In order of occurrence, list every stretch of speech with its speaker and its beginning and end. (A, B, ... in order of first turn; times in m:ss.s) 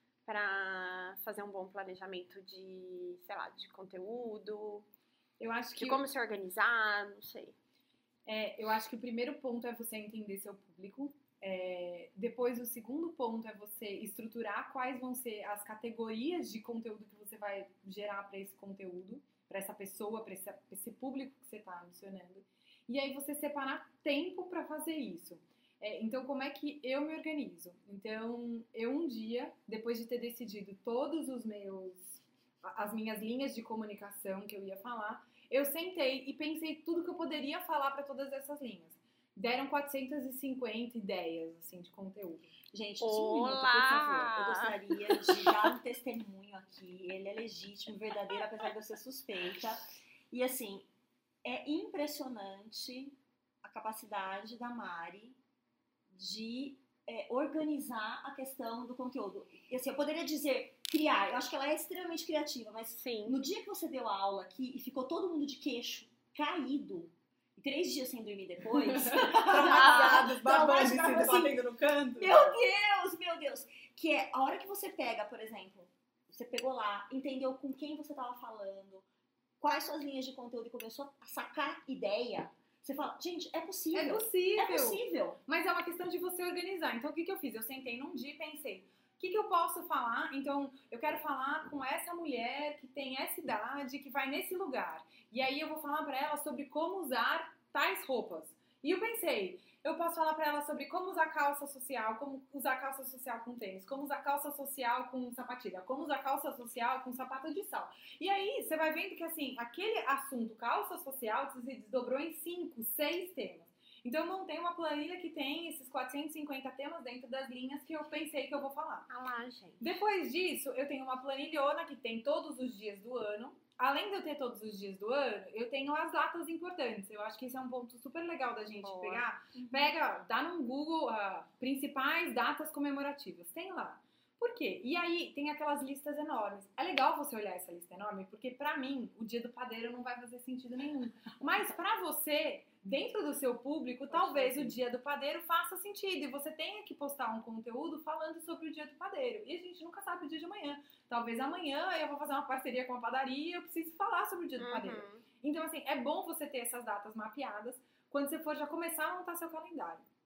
0:00.2-0:04.9 A
0:05.4-0:06.0 B
0:05.8-0:07.5 A
0:08.2-0:42.5 B
0:42.7-0:50.9 C
0:43.0-0:45.6 A
0:51.4-0:55.4 C
0:56.1-1:11.6 C
1:02.9-1:03.4 A
1:08.9-1:12.5 B
1:09.9-1:10.2 A
1:12.2-1:19.0 C
1:19.6-1:25.4 C
1:23.9-1:59.1 B
1:59.1-2:00.0 A
1:59.8-2:40.0 B
2:08.7-2:09.3 A
2:09.6-2:09.9 C
2:24.1-2:24.8 C
2:34.6-2:35.2 A